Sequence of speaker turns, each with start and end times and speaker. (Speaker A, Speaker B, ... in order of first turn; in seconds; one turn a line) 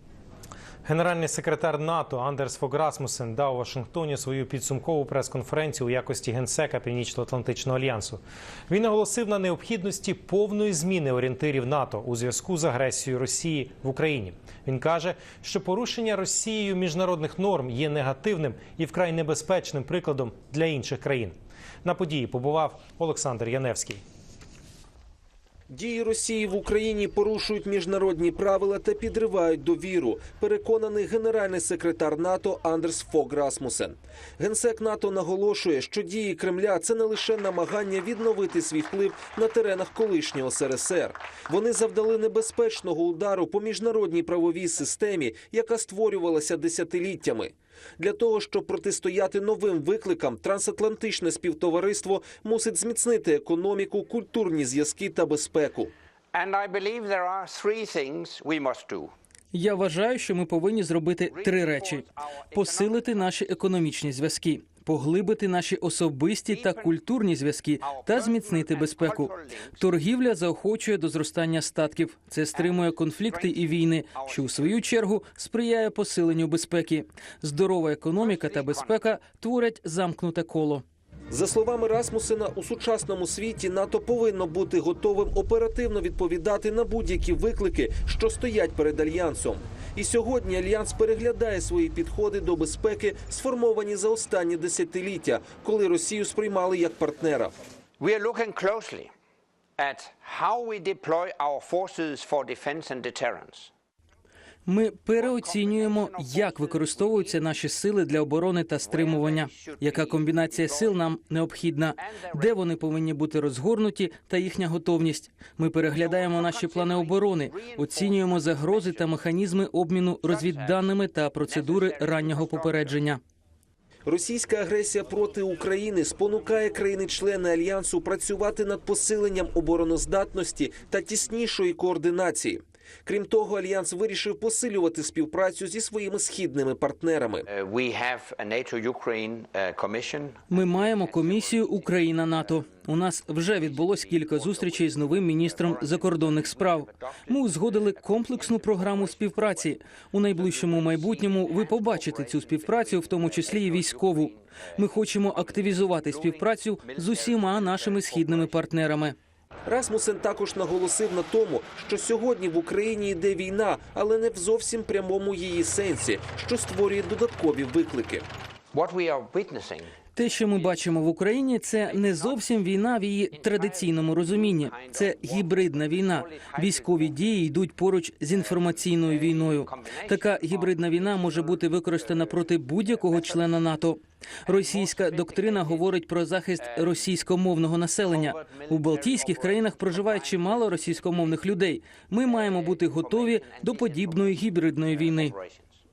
Speaker A: 0.8-24.0
Speaker B: 25.7-55.9
Speaker C: 56.3-59.1
Speaker D: 59.5-80.8
Speaker C: 61.3-63.3
Speaker C: 66.5-67.0
Speaker C: 67.8-69.7
Speaker C: 72.5-74.8
Speaker C: 78.2-79.0
Speaker B: 81.3-97.5
Speaker C: 98.0-99.1
Speaker C: 99.8-103.7
Speaker D: 104.7-123.2
Speaker C: 105.2-107.5
Speaker C: 108.8-111.0
Speaker C: 112.0-112.7
Speaker C: 115.8-119.2
Speaker C: 120.2-123.0
Speaker B: 124.1-137.5
Speaker C: 137.5-142.9
Speaker D: 140.5-159.2
Speaker C: 143.6-149.8
Speaker C: 150.3-158.7
Speaker B: 159.7-168.2
Speaker C: 168.7-169.9
Speaker D: 170.2-195.4
Speaker C: 171.7-172.4
Speaker C: 173.4-177.2
Speaker C: 178.3-183.4
Speaker C: 184.5-185.9
Speaker C: 186.6-187.1
Speaker C: 188.1-191.4
Speaker C: 192.2-195.8